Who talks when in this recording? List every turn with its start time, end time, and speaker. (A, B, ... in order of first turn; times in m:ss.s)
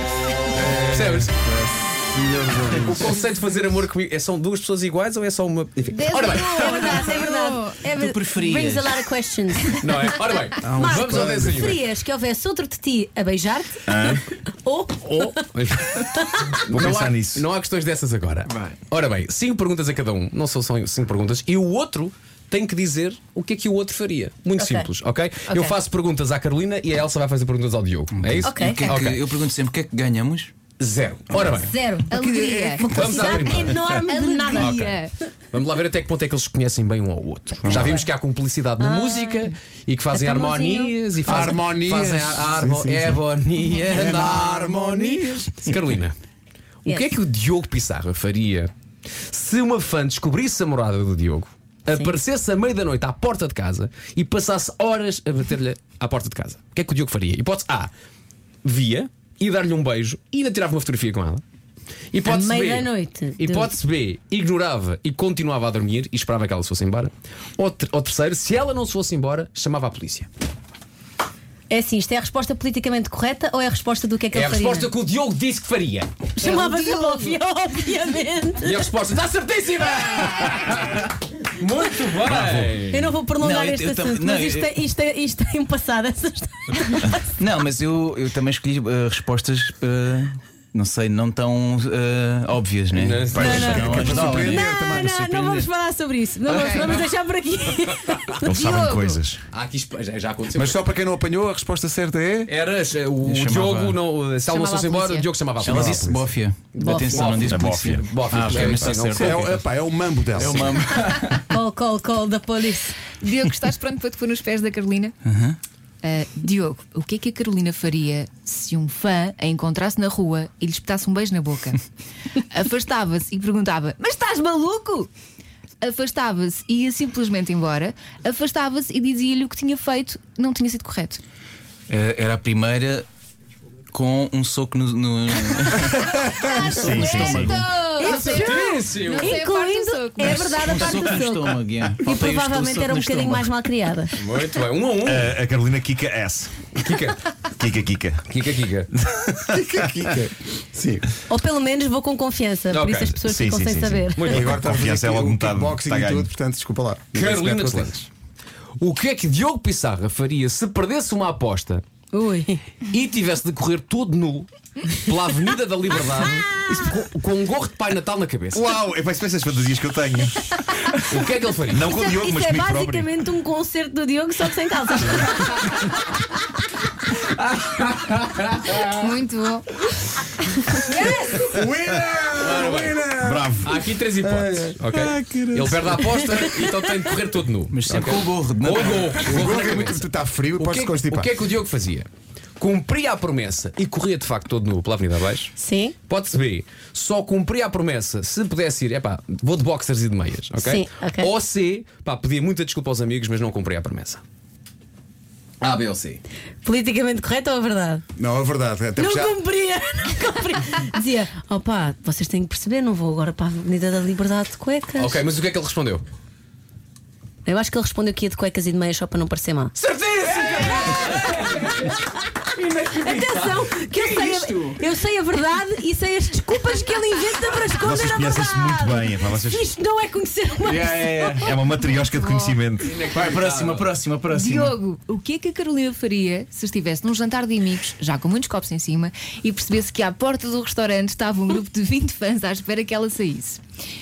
0:00.5-0:03.2 A
0:00.9-0:01.3 B
0:02.8-0:07.0 B
0:05.9-0:07.8 C
0:06.3-0:09.9 D
0:07.9-0:09.0 E
0:09.8-0:11.8 B
0:10.6-0:11.7 A
0:10.6-0:15.3 D
0:13.9-0:14.2 F
0:15.2-0:16.0 B
0:15.9-0:16.6 D
0:16.6-0:29.2 B
0:16.7-0:17.4 F
0:18.5-0:18.8 E
0:24.6-0:24.9 D
0:25.5-0:25.7 D
0:28.1-0:30.5 E
0:28.4-0:28.9 D
0:30.8-0:31.7 B
0:31.4-0:32.1 D
0:32.1-0:33.0 C
0:32.1-0:33.7 A
0:32.9-0:34.0 B
0:32.9-0:34.8 D
0:34.0-0:35.1 C
0:34.5-0:46.1 B
0:37.6-0:38.0 A
0:37.7-0:38.0 D
0:38.8-0:39.5 D
0:40.1-0:41.0 D
0:41.2-0:43.2 A
0:43.9-0:45.5 A
0:46.8-0:48.7 B
0:49.3-0:57.9 B
0:58.6-1:01.4 B
1:02.1-1:10.3 B
1:02.2-1:03.7 D
1:11.7-1:14.9 D
1:14.3-1:17.3 B
1:16.4-1:18.8 D
1:18.6-1:23.2 B
1:22.3-1:22.7 E
1:22.9-1:27.2 D
1:23.4-1:24.8 E
1:27.4-1:35.7 E
1:32.9-1:33.8 B
1:33.3-1:33.6 F
1:33.3-1:38.9 D
1:33.4-1:35.1 A
1:36.5-1:37.0 E
1:36.5-1:36.9 C
1:38.4-1:39.4 F
1:38.7-1:39.2 C
1:39.5-1:40.8 B
1:40.5-1:42.5 A
1:42.4-1:46.1 B
1:43.2-1:44.0 E
1:44.4-1:45.3 C
1:45.6-1:49.6 E
1:45.6-1:46.2 A
1:46.7-1:49.5 B
1:46.8-1:47.4 D
1:47.4-1:48.0 F
1:48.6-1:50.6 A
1:50.3-1:51.4 E
1:50.4-1:50.8 B
1:51.5-1:52.9 D
1:53.2-1:55.1 C
1:55.2-1:55.6 E
1:56.0-2:01.8 C
2:02.5-2:05.1 C
2:05.8-2:11.2 C
2:11.9-2:13.0 E
2:13.9-2:17.6 E
2:16.5-2:20.7 C
2:16.7-2:17.6 F
2:18.0-2:24.1 D
2:18.0-2:19.4 B
2:20.3-2:23.5 E
2:24.2-2:25.4 B
2:25.0-2:26.6 F
2:26.8-2:27.2 B
2:27.5-2:28.3 F
2:28.3-2:28.9 B
2:28.9-2:29.7 F
2:29.5-2:31.1 A
2:31.3-2:34.4 D
2:32.7-2:33.2 B
2:33.2-2:36.3 F
2:34.2-2:34.5 B
2:34.3-2:38.1 A
2:37.1-2:38.1 B
2:38.8-2:41.8 B
2:42.1-2:42.6 D
2:42.9-2:48.6 B
2:48.5-2:51.0 F
2:51.1-2:51.8 B
2:51.7-2:53.1 F
2:51.9-2:55.7 D
2:57.4-2:58.9 B
2:58.9-2:59.7 C
3:00.7-3:01.6 C
3:01.5-3:04.8 A
3:02.4-3:03.0 B
3:03.2-3:03.6 F
3:03.6-3:15.5 B
3:04.9-3:06.3 E
3:07.7-3:09.5 E
3:09.2-3:11.3 A
3:15.6-3:16.0 D
3:16.1-3:24.2 B
3:20.6-3:21.3 D
3:25.6-3:26.2 B
3:26.6-3:28.0 D
3:28.2-3:29.4 A
3:29.0-3:35.2 D
3:35.0-3:36.0 B
3:37.4-3:39.7 D
3:39.8-3:41.7 B
3:40.2-3:41.6 E
3:42.6-3:43.5 B
3:42.8-3:51.6 D
3:43.9-3:44.8 E
3:47.8-3:49.6 F
3:50.6-3:51.6 E
3:51.4-3:53.1 F
3:52.0-3:52.6 C
3:52.8-3:54.0 B
3:53.1-3:54.8 E
3:54.3-4:03.6 C